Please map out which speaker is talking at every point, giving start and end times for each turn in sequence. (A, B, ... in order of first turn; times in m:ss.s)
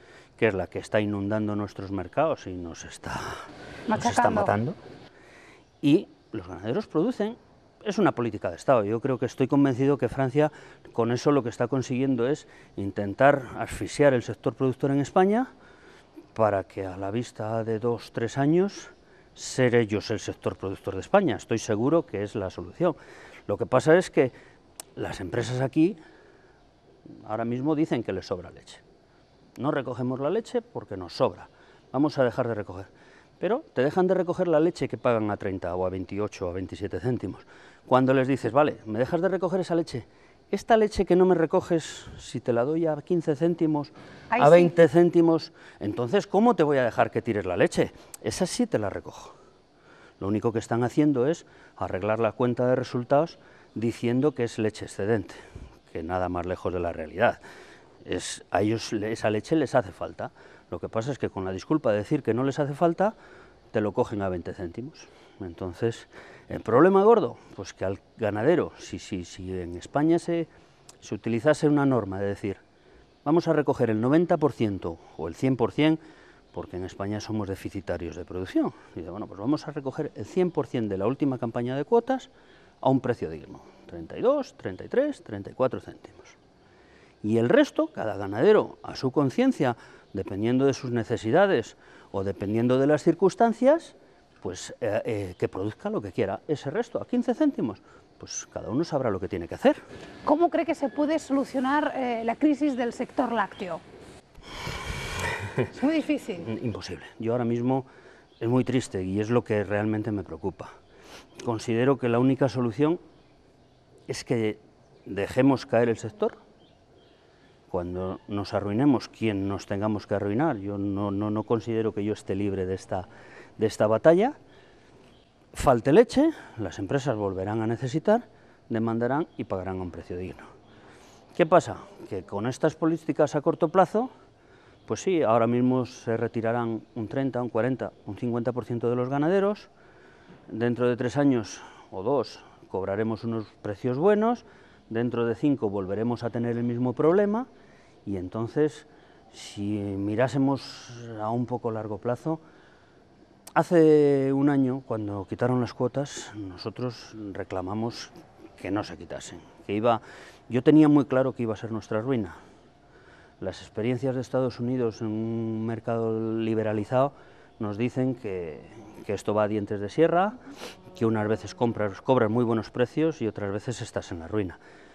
0:00.4-0:03.4 A
0:03.9-0:04.5 B
0:04.0-0:04.8 A
0:05.8-0:15.5 A
0:16.4-0:23.0 A
0:23.5-0:24.3 A
0:25.0-0:26.0 A
0:27.2-0:28.8 A
0:29.6-0:49.3 A
0:44.3-0:44.7 B
0:50.2-0:57.4 A
0:58.0-1:03.2 A
1:03.7-1:10.5 A
1:11.0-1:12.6 A
1:13.2-1:16.0 A
1:16.5-1:22.3 A
1:22.8-1:26.4 A
1:27.2-1:39.8 A
1:40.2-1:43.8 B
1:45.7-1:46.5 B
1:46.4-1:47.9 A
1:48.4-1:50.7 A
1:51.4-1:53.0 A
1:54.1-1:56.4 A
1:57.7-2:04.4 A
2:05.5-2:10.5 A
2:11.4-2:14.1 A
2:14.9-2:19.7 A
2:20.5-2:27.5 A
2:28.0-2:32.4 A
2:33.6-2:42.4 A
2:43.4-2:50.4 A
2:50.9-2:54.6 A